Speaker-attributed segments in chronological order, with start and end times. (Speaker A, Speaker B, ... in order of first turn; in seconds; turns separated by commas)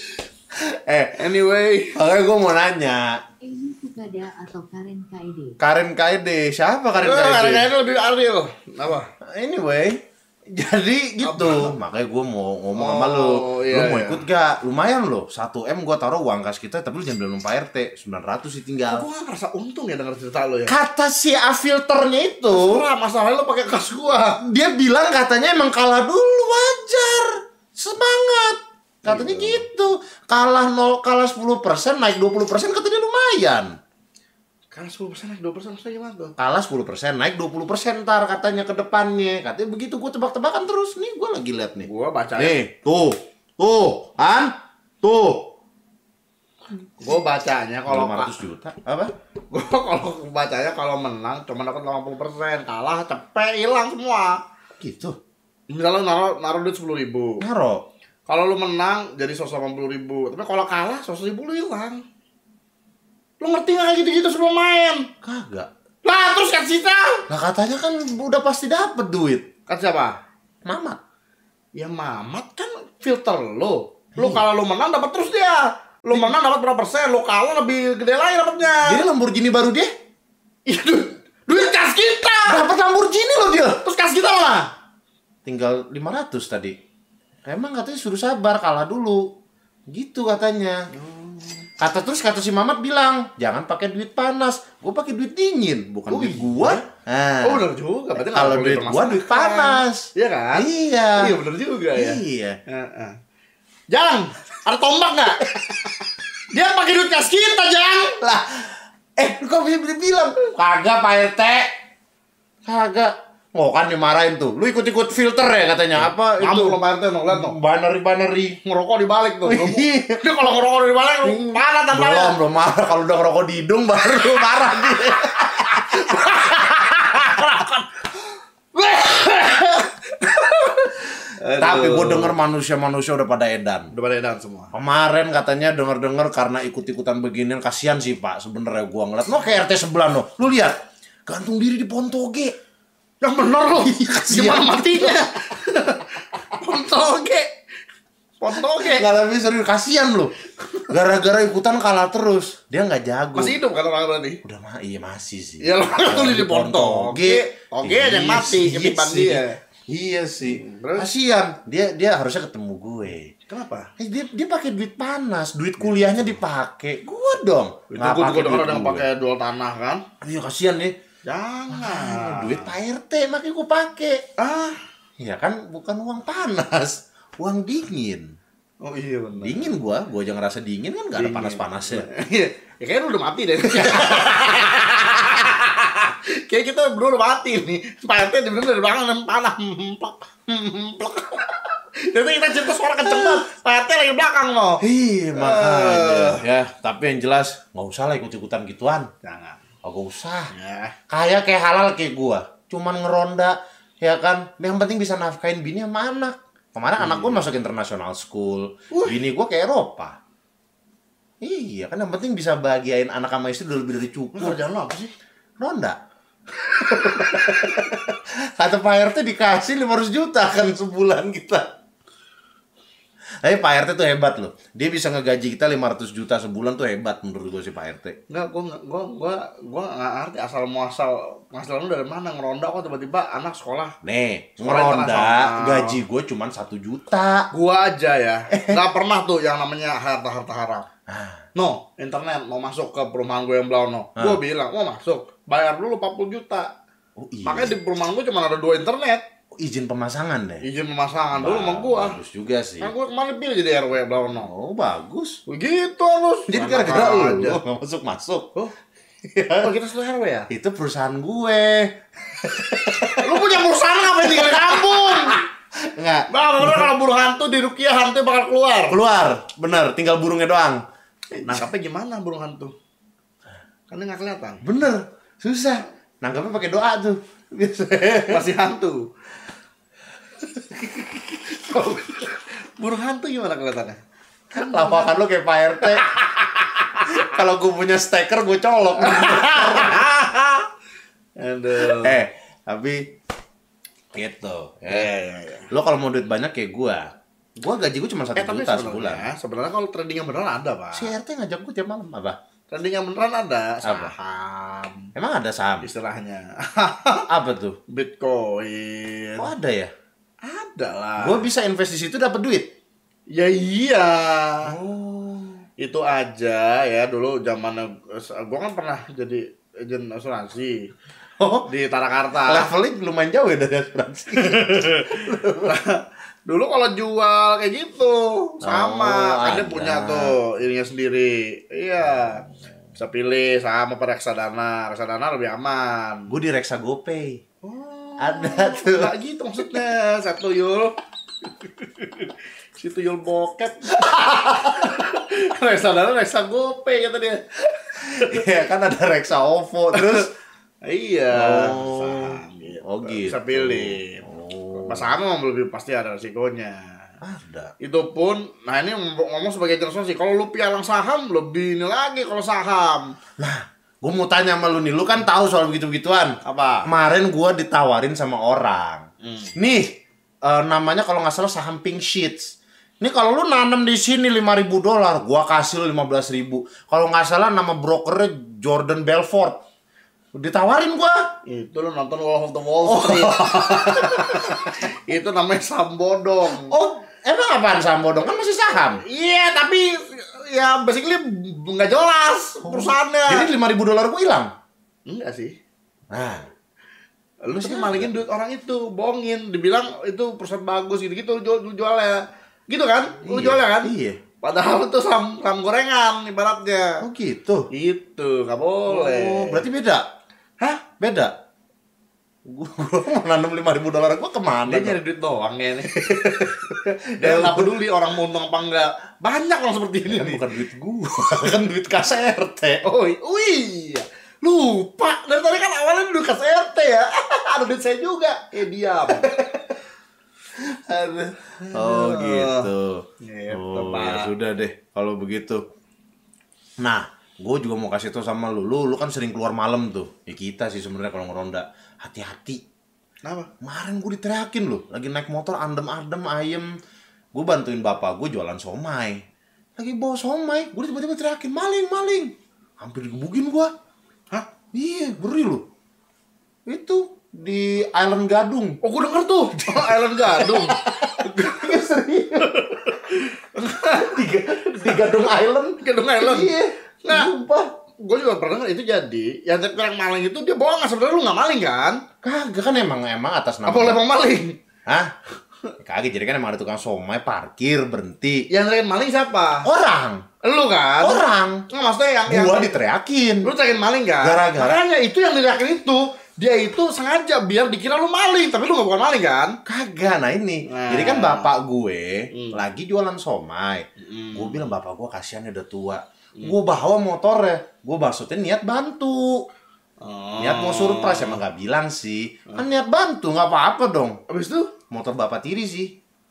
Speaker A: 0.6-1.2, Speaker B: 1.2-2.0, Speaker A: 1.9-3.2, Speaker C: 3.4-5.6, Speaker A: 5.6-7.7, Speaker B: 7.0-9.1, Speaker A: 9.2-19.1, Speaker B: 11.2-11.7, Speaker B: 12.8-14.2, Speaker B: 18.9-20.8, Speaker A: 20.7-22.8, Speaker B: 22.5-24.4, Speaker A: 24.4-33.8, Speaker B: 29.1-29.6, Speaker B: 34.7-36.3, Speaker A: 36.4-45.5, Speaker B: 41.8-42.6, Speaker B: 47.0-48.3, Speaker A: 47.9-49.1, Speaker B: 49.5-54.4, Speaker A: 54.8-55.2, Speaker B: 55.7-57.4, Speaker A: 57.4-57.8, Speaker B: 58.3-62.0, Speaker B: 63.4-65.1, Speaker A: 65.2-65.7, Speaker B: 66.0-67.3, Speaker A: 67.3-69.5, Speaker B: 69.7-70.2, Speaker A: 70.7-71.0, Speaker B: 71.8-79.0, Speaker A: 74.2-74.5, Speaker A: 78.8-79.9, Speaker B: 80.7-82.7, Speaker A: 82.5-83.8, Speaker B: 83.8-84.7, Speaker A: 85.5-86.8, Speaker A: 87.5-89.2, Speaker A: 89.9-90.8, Speaker B: 90.9-91.7, Speaker A: 91.8-97.7, Speaker B: 96.1-96.9, Speaker B: 97.4-103.2, Speaker A: 98.2-101.4, Speaker A: 102.0-102.6, Speaker B: 103.9-108.2, Speaker A: 108.2-111.7, Speaker A: 112.7-116.8, Speaker B: 116.4-117.6, Speaker A: 117.3-118.6, Speaker B: 118.6-122.4, Speaker A: 119.5-120.3, Speaker A: 121.2-126.1, Speaker B: 125.0-127.9, Speaker B: 128.8-132.3, Speaker A: 131.6-133.9, Speaker B: 133.9-134.7, Speaker A: 134.7-142.6, Speaker B: 143.2-147.5, Speaker A: 143.8-145.3, Speaker B: 148.4-149.1, Speaker A: 148.8-150.3, Speaker A: 150.9-153.6, Speaker B: 153.3-154.4, Speaker A: 154.4-163.3, Speaker B: 155.6-159.6, Speaker B: 160.4-161.1, Speaker B: 163.5-163.9, Speaker A: 164.0-169.1, Speaker B: 167.9-170.0, Speaker A: 170.2-171.0, Speaker B: 171.3-172.7, Speaker A: 171.7-174.2, Speaker B: 174.4-174.8, Speaker A: 175.2-178.3, Speaker B: 178.8-179.7, Speaker A: 179.4-182.1, Speaker B: 181.2-194.8, Speaker A: 183.7-184.5, Speaker A: 193.0-193.5, Speaker A: 194.8-199.1, Speaker B: 195.4-196.4, Speaker B: 199.2-199.6, Speaker A: 199.8-200.5, Speaker B: 200.5-200.9, Speaker A: 201.1-210.2, Speaker B: 207.0-207.4, Speaker B: 208.9-209.2, Speaker A: 211.4-214.6, Speaker B: 214.3-215.1, Speaker A: 215.6-216.0, Speaker B: 216.8-217.6, Speaker A: 216.8-221.7, Speaker A: 223.4-228.2, Speaker B: 228.3-233.9, Speaker A: 234.0-237.5, Speaker B: 234.6-236.0, Speaker B: 237.5-240.9, Speaker A: 238.5-238.8, Speaker A: 241.1-241.4, Speaker B: 241.6-246.7, Speaker A: 247.2-247.7, Speaker B: 247.5-249.2, Speaker A: 249.6-250.6, Speaker B: 250.6-252.2, Speaker A: 251.3-252.9, Speaker B: 252.8-254.5, Speaker A: 254.4-255.4, Speaker B: 255.5-257.6, Speaker A: 256.5-258.6, Speaker A: 259.3-259.8, Speaker B: 259.6-260.5, Speaker A: 260.5-263.5, Speaker B: 263.1-265.4, Speaker A: 264.1-266.9, Speaker B: 266.3-269.0, Speaker A: 268.9-270.8, Speaker B: 271.4-272.7, Speaker B: 273.9-274.6, Speaker A: 274.6-278.5, Speaker B: 278.3-279.1, Speaker B: 281.1-284.0, Speaker A: 284.5-286.1, Speaker B: 284.6-285.1, Speaker B: 285.8-286.5, Speaker A: 287.0-290.6, Speaker B: 289.0-290.2, Speaker B: 291.4-292.2, Speaker A: 291.8-293.1, Speaker A: 294.1-295.1, Speaker B: 294.9-295.7, Speaker A: 295.7-299.2, Speaker B: 298.4-301.1, Speaker A: 300.9-302.4, Speaker B: 302.7-305.1, Speaker A: 303.8-304.1, Speaker A: 305.1-305.9, Speaker B: 305.8-307.3, Speaker A: 307.3-307.8, Speaker B: 307.9-309.5, Speaker A: 309.4-309.9, Speaker B: 310.4-311.4, Speaker A: 311.2-312.7, Speaker B: 313.3-314.7, Speaker A: 314.7-315.6, Speaker B: 315.8-320.9, Speaker A: 321.4-321.7, Speaker B: 321.7-322.7, Speaker A: 322.5-325.7, Speaker B: 324.6-336.3, Speaker A: 328.6-330.4, Speaker A: 336.3-337.4, Speaker B: 337.6-348.5, Speaker A: 338.2-339.1, Speaker A: 344.2-345.0, Speaker A: 348.1-350.3, Speaker B: 349.9-350.3, Speaker B: 350.8-357.0, Speaker A: 351.3-355.1, Speaker A: 357.2-357.7, Speaker B: 357.8-363.1, Speaker A: 363.4-369.9, Speaker B: 366.4-366.9, Speaker B: 369.2-369.5, Speaker A: 370.4-379.6, Speaker A: 380.4-381.3, Speaker B: 381.5-386.7, Speaker A: 382.8-384.8, Speaker A: 386.6-389.0, Speaker B: 389.0-393.5, Speaker A: 392.6-394.5, Speaker B: 395.1-395.6, Speaker A: 396.1-396.5, Speaker B: 397.4-407.0, Speaker A: 397.6-398.1, Speaker A: 403.2-404.2, Speaker A: 407.0-407.6, Speaker B: 407.7-409.7, Speaker A: 408.9-410.1, Speaker A: 411.0-411.3, Speaker A: 412.4-415.0, Speaker B: 414.6-416.5, Speaker A: 415.9-417.7, Speaker B: 417.2-420.4, Speaker A: 420.1-422.8, Speaker B: 422.8-429.5, Speaker A: 429.1-429.5, Speaker A: 430.6-435.6, Speaker B: 431.6-432.7, Speaker B: 433.2-434.3, Speaker A: 436.8-442.6, Speaker B: 443.2-443.5, Speaker A: 443.6-446.7, Speaker A: 447.3-449.2, Speaker A: 449.8-453.7, Speaker A: 454.7-455.6, Speaker A: 456.7-458.8, Speaker B: 458.8-461.8, Speaker A: 459.6-463.0, Speaker B: 462.6-465.0, Speaker A: 463.9-467.7, Speaker B: 465.8-467.3, Speaker B: 468.0-472.0, Speaker A: 472.2-474.0, Speaker B: 473.7-474.6, Speaker A: 474.9-475.1, Speaker A: 475.8-478.4, Speaker B: 478.5-479.7, Speaker A: 479.6-480.2, Speaker B: 480.4-482.7, Speaker A: 481.0-481.6, Speaker A: 482.3-483.5, Speaker B: 483.4-489.6, Speaker A: 484.2-484.8, Speaker A: 489.7-499.4, Speaker B: 490.7-491.5, Speaker B: 492.3-492.6, Speaker B: 494.0-494.7, Speaker B: 500.0-501.4, Speaker A: 500.4-504.2, Speaker B: 504.3-504.7, Speaker A: 504.9-505.9